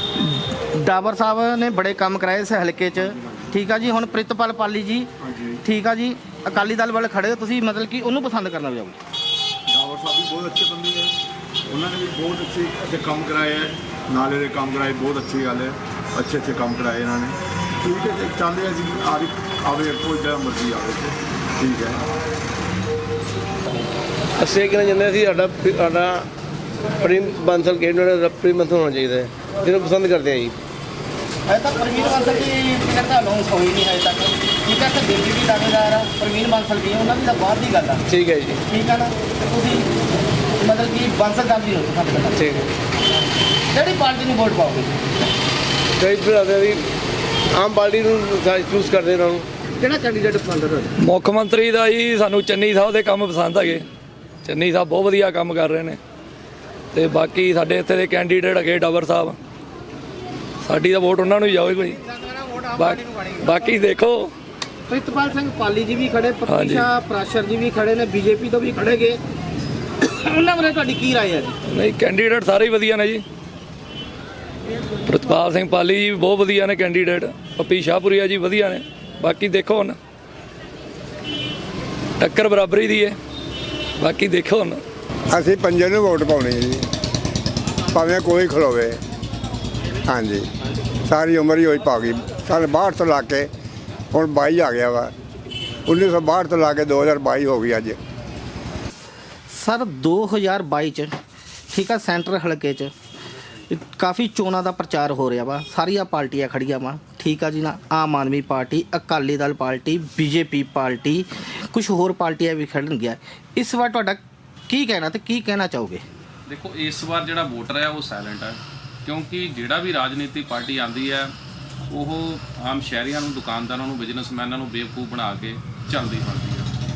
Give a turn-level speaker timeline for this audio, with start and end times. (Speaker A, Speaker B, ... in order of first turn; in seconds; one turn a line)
Speaker A: 0.2-5.1
Speaker B: 5.2-5.6
Speaker A: 5.6-9.0
Speaker B: 9.7-11.1
Speaker B: 11.7-22.0
Speaker C: 24.4-26.2
Speaker C: 27.0-30.5
Speaker A: 31.5-38.0
Speaker C: 38.1-38.6
Speaker A: 38.7-39.9
Speaker A: 40.6-42.5
Speaker C: 42.4-42.6
Speaker A: 43.7-45.0
Speaker C: 46.0-46.8
Speaker C: 47.5-49.4
Speaker A: 49.8-50.9
Speaker D: 51.0-53.8
Speaker D: 54.4-56.0
Speaker D: 56.9-59.4
Speaker D: 60.6-61.9
Speaker A: 62.2-63.0
Speaker D: 63.5-64.3
Speaker A: 64.9-69.2
Speaker D: 66.5-66.8
Speaker A: 70.0-71.5
Speaker D: 71.7-73.2
Speaker D: 75.1-80.0
Speaker D: 82.2-83.2
Speaker D: 84.0-84.8
Speaker E: 85.3-86.7
Speaker E: 87.9-89.0
Speaker E: 90.1-90.5
Speaker E: 91.1-93.5
Speaker E: 94.1-95.1
Speaker E: 95.9-98.0
Speaker A: 99.5-101.1
Speaker A: 101.7-102.9
Speaker A: 103.7-116.0
Speaker F: 116.5-121.3
Speaker F: 121.9-126.7